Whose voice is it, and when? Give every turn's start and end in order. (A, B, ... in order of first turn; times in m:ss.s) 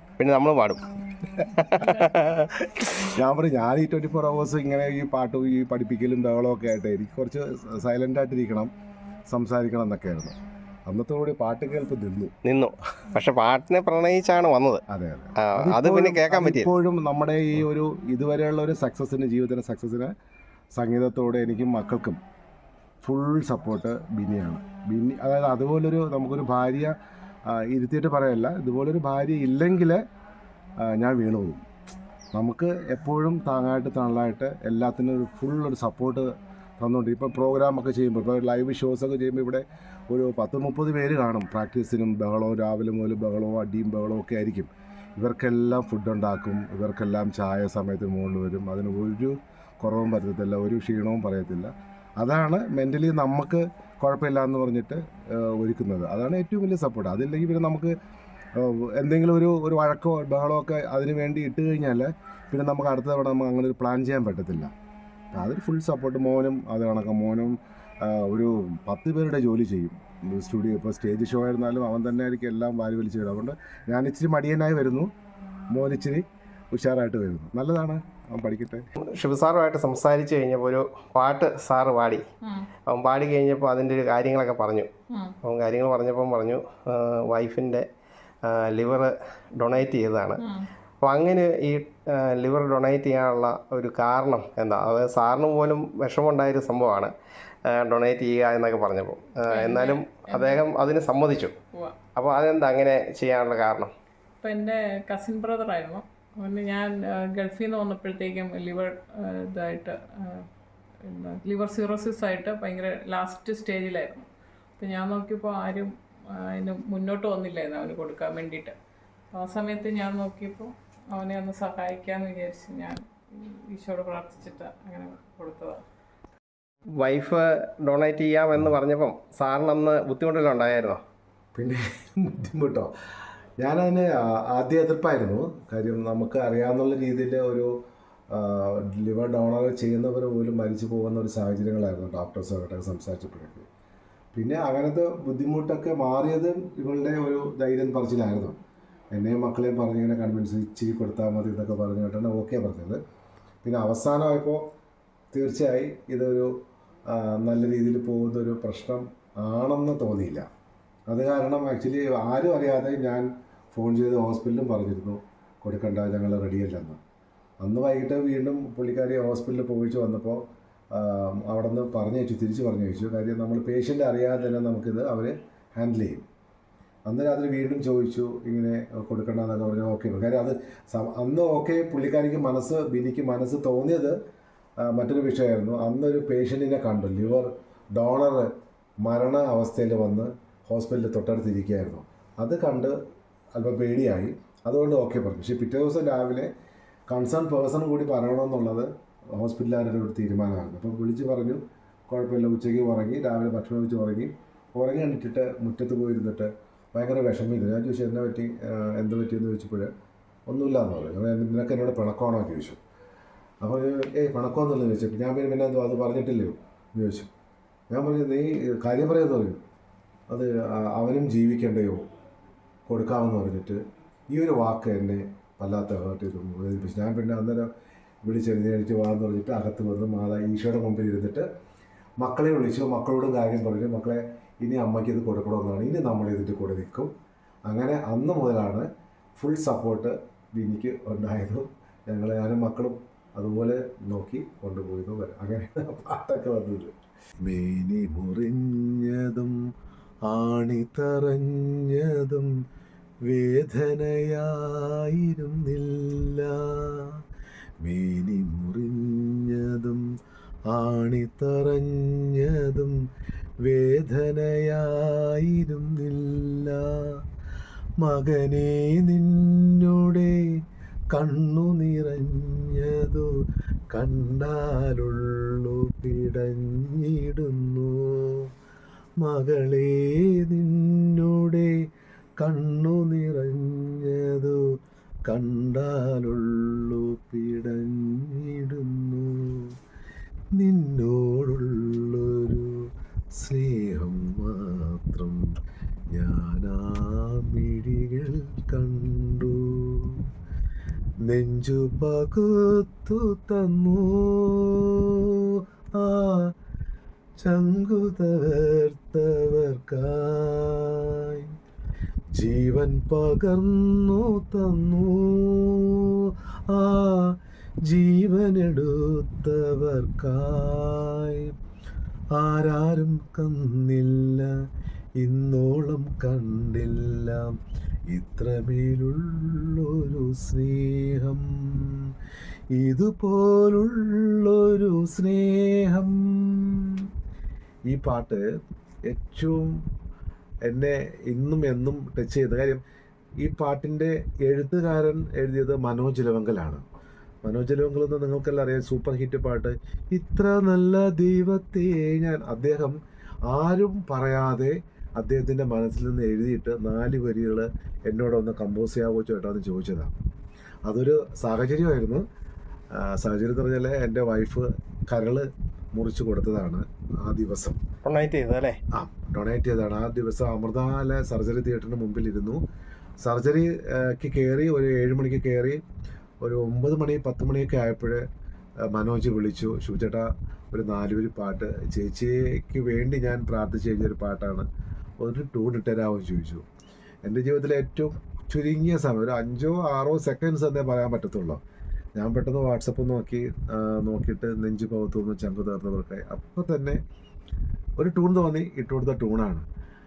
0:00.2-0:02.9 A
0:01.4-0:01.9 B
0:03.0-0:08.7 B
0:09.3-0:10.4 B
0:10.9-0:12.3 B
0:12.4-0:14.8 A
0:14.9-0:20.1 B
0:15.4-0:16.7 A
0:20.7-0:22.2 B
0:23.0-0:27.0 B
0:27.5-0:30.0 B
0:30.8-0:31.6 B
0:32.3-0:58.0 B
0:58.6-1:04.7 B
1:05.3-1:15.1 B
1:15.7-1:18.9 B
1:19.0-1:22.3 A
1:22.4-1:22.7 C
1:22.9-1:24.9 A
1:25.1-1:25.4 C
1:25.4-1:27.9 A
1:28.4-1:30.4 A
1:30.4-1:30.7 C
1:31.0-1:37.1 A
1:37.7-1:41.5 A
1:39.5-1:40.6 C
1:41.7-1:42.0 C
1:42.2-1:43.9 A
1:44.4-1:50.5 C
1:51.0-1:54.3 C
1:54.8-1:58.8 C
1:59.3-2:05.8 C
2:07.0-2:11.0 A
2:11.6-2:12.9 B
2:13.6-2:17.7 B
2:18.3-2:23.7 B
2:24.4-2:28.6 B
2:29.1-2:33.0 B
2:33.6-2:34.7 B
2:35.3-2:40.5 B
2:41.1-2:47.0 B
2:47.6-2:56.3 B
2:57.1-3:04.2 B
3:04.8-3:08.5 B
3:09.0-3:13.0 B
3:13.6-3:16.5 B
3:17.1-3:29.9 B
3:30.5-3:32.8 B
3:33.6-3:37.3 B
3:37.9-3:39.6 B
3:40.3-3:42.1 B
3:42.9-3:47.7 B
3:48.2-3:51.5 B
3:52.2-3:57.1 B
3:57.7-4:09.6 B
4:10.3-4:12.5 B
4:13.3-4:17.2 B
4:17.8-4:20.1 B
4:20.7-4:23.0 B
4:23.6-4:27.2 B
4:28.0-4:30.5 B
4:31.1-4:33.3 B
4:33.9-4:38.5 B
4:39.2-4:41.8 B
4:42.4-4:44.7 B
4:45.3-4:49.8 B
4:50.6-4:55.5 B
4:56.1-5:00.3 B
5:01.3-5:06.5 B
5:07.4-5:11.5 B
5:12.3-5:21.5 B
5:22.3-5:24.6 B
5:25.2-5:27.6 B
5:28.1-5:32.1 B
5:32.8-5:37.1 B
5:37.9-5:38.4 B
5:39.1-5:39.8 B
5:40.7-5:42.8 B
5:43.4-5:46.8 B
5:47.4-5:53.0 B
5:53.5-6:00.2 B
6:00.9-6:02.3 B
6:02.9-6:07.8 B
6:08.0-6:08.8 A
6:08.9-6:12.6 B
6:13.2-6:15.8 B
6:16.4-6:18.2 B
6:18.8-6:24.7 B
6:25.2-6:26.6 B
6:27.2-6:31.6 B
6:32.2-6:37.0 B
6:38.0-6:39.6 B